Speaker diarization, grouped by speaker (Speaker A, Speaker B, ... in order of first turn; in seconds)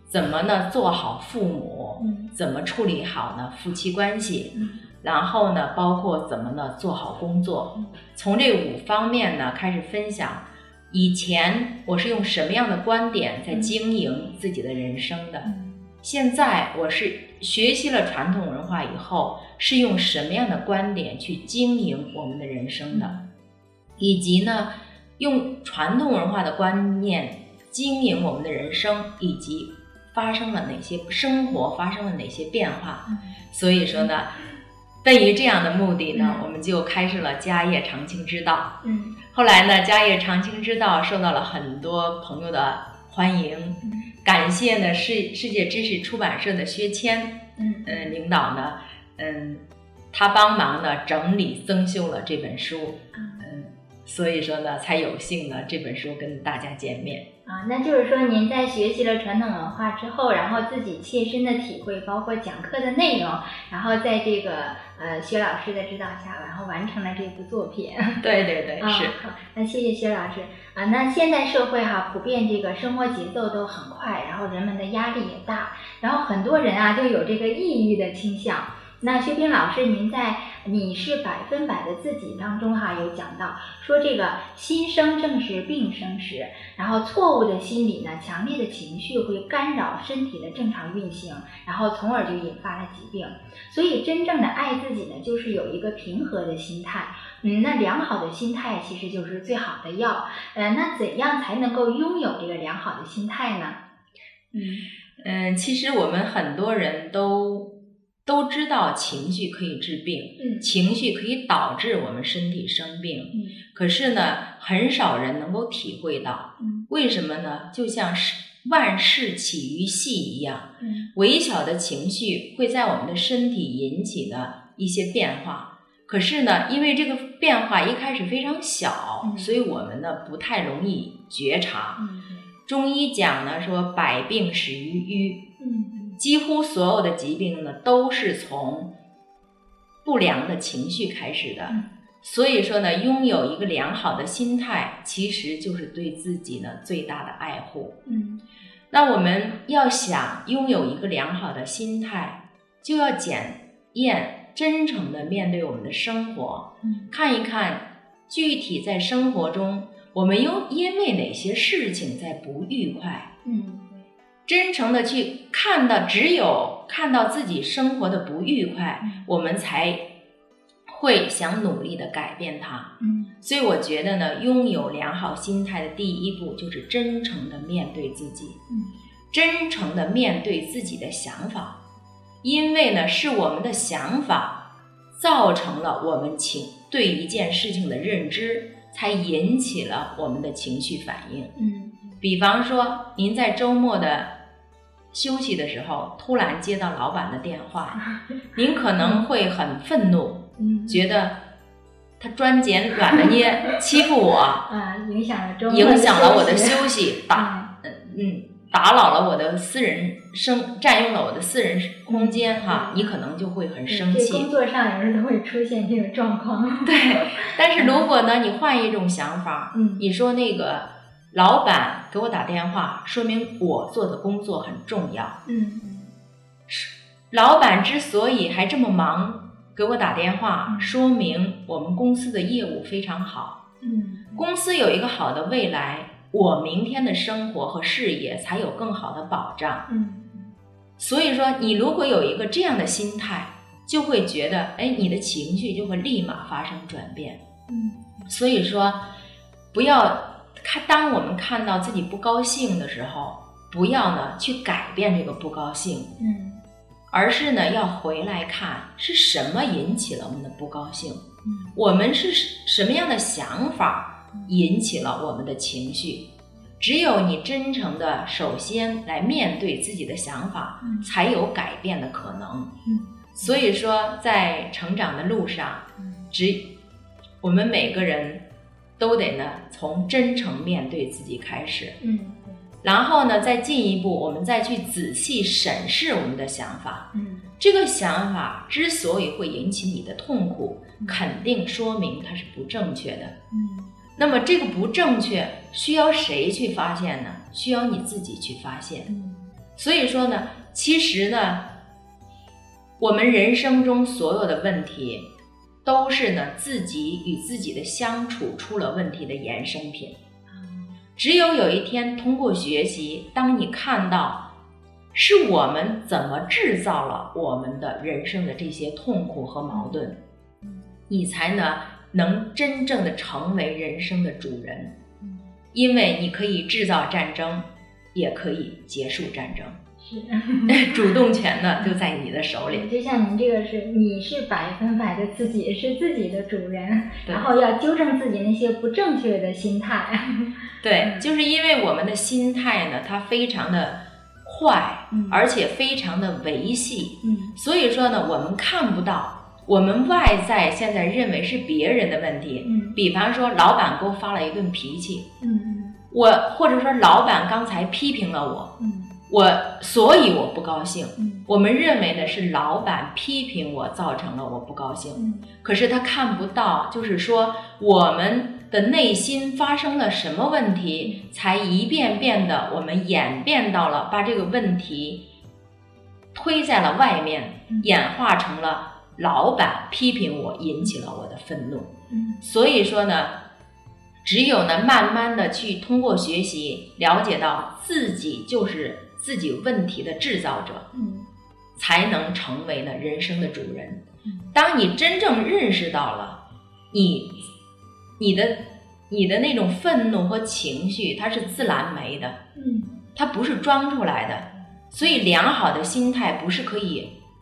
Speaker A: 0.1-15.5, 16.0-23.1, 24.0-34.3, 35.0-38.7, 39.3-57.2, 68.2-69.1, 105.2-107.7, 108.2-132.0, 132.7-135.4, 136.2-138.9, 140.0-148.0, 148.9-163.3, 164.5-170.0, 170.9-178.6, 179.3-181.8, 182.4-184.6, 185.2-191.5, 192.2-194.3, 195.1-198.0, 198.5-201.4, 202.2-204.6, 205.7-214.5, 216.8-225.4, 226.7-233.6, 234.3-239.8, 241.0-247.4, 248.3-249.0, 249.7-256.1, 257.1-266.2, 266.8-272.7, 273.3-276.6, 277.4-278.4, 279.0-282.0, 282.8-293.4, 294.2-299.1, 299.8-301.6, 303.0-305.3, 305.8-310.1, 311.2-314.4, 315.1-320.2, 321.1-324.9, 325.7-329.8, 330.7-332.9, 340.8-355.3, 356.1-358.7, 359.3-375.2, 376.3-381.9, 382.4-383.4, 384.2-390.9, 391.8-396.4, 396.9-397.5, 398.2-402.4, 403.1-407.1
Speaker B: 2.0-2.3, 4.5-4.8, 13.5-13.7, 15.4-15.8, 22.9-23.2, 36.1-36.4, 38.8-39.2, 47.6-48.1, 53.1-53.5, 57.5-68.2, 68.8-103.8, 104.5-104.8, 110.4-110.7, 116.6-116.9, 120.8-121.1, 129.2-129.6, 132.0-132.4, 135.6-136.2, 148.1-148.4, 156.8-157.1, 163.4-164.0, 169.0-169.3, 173.0-173.3, 191.6-192.1, 199.0-199.2, 200.6-201.1, 204.7-207.7, 212.1-213.1, 213.9-218.1, 219.7-220.0, 225.4-226.1, 230.7-231.0, 233.8-234.5, 239.9-240.5, 247.7-248.3, 256.2-256.6, 261.4-261.7, 270.8-271.1, 272.8-273.6, 282.0-282.6, 287.1-287.4, 293.5-293.9, 299.1-299.4, 319.7-320.0, 330.0-331.2, 332.7-341.3, 345.1-345.5, 347.2-347.6, 352.6-353.0, 355.4-356.0, 358.8-359.1, 361.2-361.5, 365.1-365.5, 382.1-382.4, 390.9-391.3, 402.5-403.0